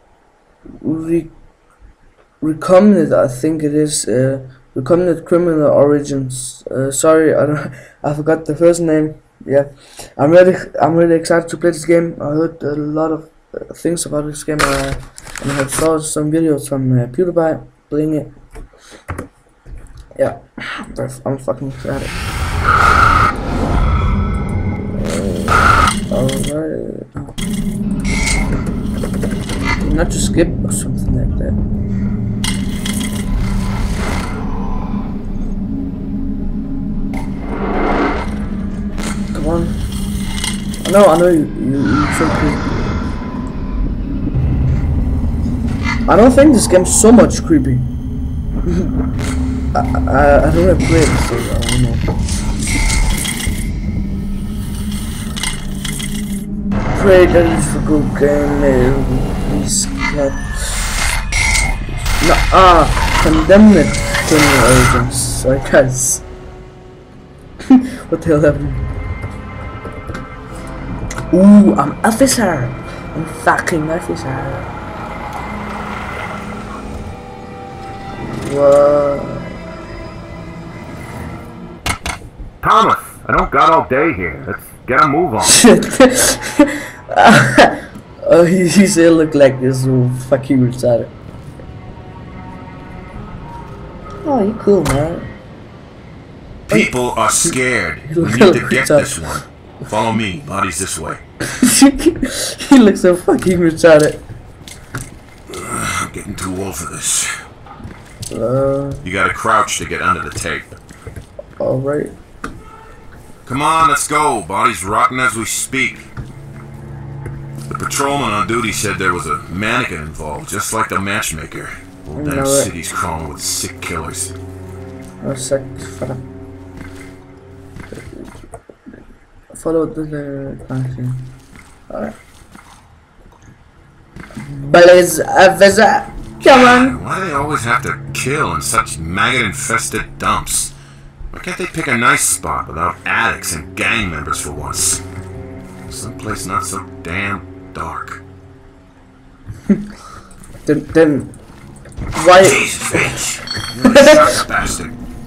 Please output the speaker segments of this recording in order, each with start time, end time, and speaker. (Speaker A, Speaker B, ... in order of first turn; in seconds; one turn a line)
Speaker A: 0.8-1.3
Speaker A: 2.4-18.3
Speaker A: 20.2-22.2
Speaker A: 24.9-27.3
Speaker A: 29.8-31.6
Speaker A: 39.3-39.8
Speaker A: 40.8-42.9
Speaker A: 46.0-47.9
Speaker A: 49.7-52.1
Speaker A: 56.9-61.0
Speaker A: 62.2-66.2
Speaker A: 67.7-68.9
Speaker A: 71.3-74.7
Speaker A: 78.3-79.6
Speaker B: 82.6-85.6
Speaker A: 85.4-91.1
Speaker A: 94.2-95.3
Speaker B: 96.7-101.2
Speaker A: 98.1-99.3
Speaker A: 101.5-104.2
Speaker B: 105.5-107.3
Speaker A: 108.3-109.0
Speaker B: 109.0-110.7
Speaker A: 111.6-112.1
Speaker B: 113.4-116.1
Speaker B: 117.7-124.3
Speaker A: 122.1-122.7
Speaker A: 125.2-126.2
Speaker A: 127.9-128.3
Speaker A: 129.5-131.3
Speaker A: 131.9-132.2
Speaker A: 134.4-136.9
Speaker B: 136.4-140.7
Speaker B: 141.3-145.0
Speaker B: 145.9-148.2
Speaker A: 150.6-151.3
Speaker A: 152.1-153.2
Speaker B: 152.3-154.9
Speaker A: 153.8-154.4